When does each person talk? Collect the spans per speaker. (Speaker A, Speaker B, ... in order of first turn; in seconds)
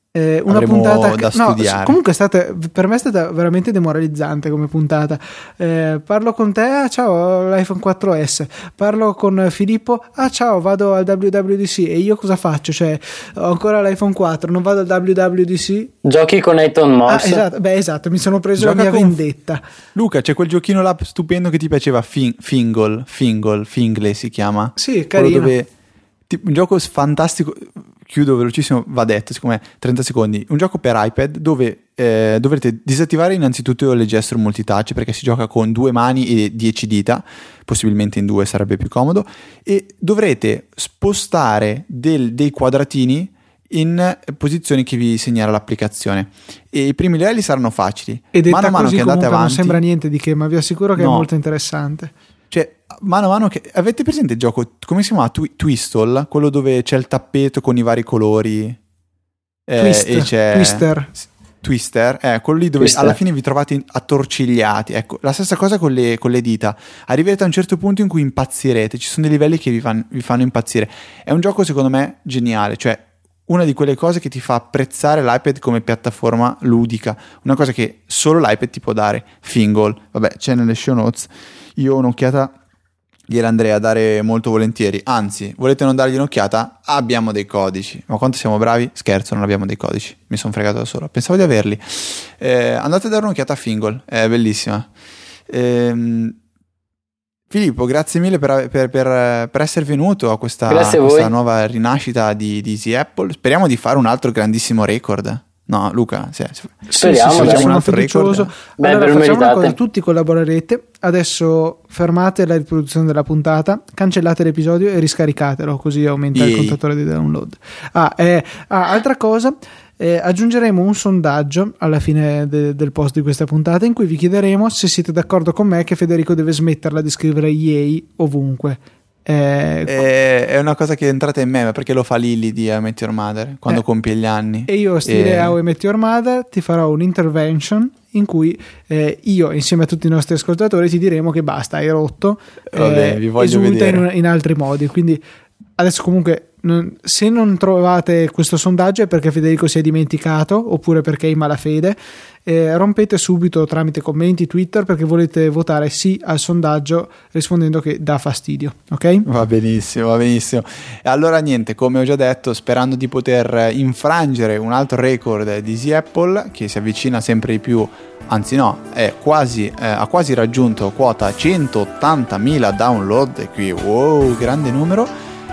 Speaker A: 0.1-15.9, 17.1-19.6, 24.8-25.5, 48.3-52.1, 59.8-61.1, 106.9-130.0, 134.7-145.2, 145.8-159.3
Speaker B: 0.5-2.0, 18.6-19.2, 19.9-25.7, 26.3-49.8, 51.0-51.3, 52.5-58.8, 59.7-60.9, 61.6-82.5, 83.3-94.9, 95.5-96.4, 97.5-108.5, 116.3-116.8, 129.9-135.6, 142.7-144.1, 159.2-175.1
Speaker C: 16.1-17.4, 62.8-63.2, 100.7-101.3, 107.0-107.7, 108.8-109.7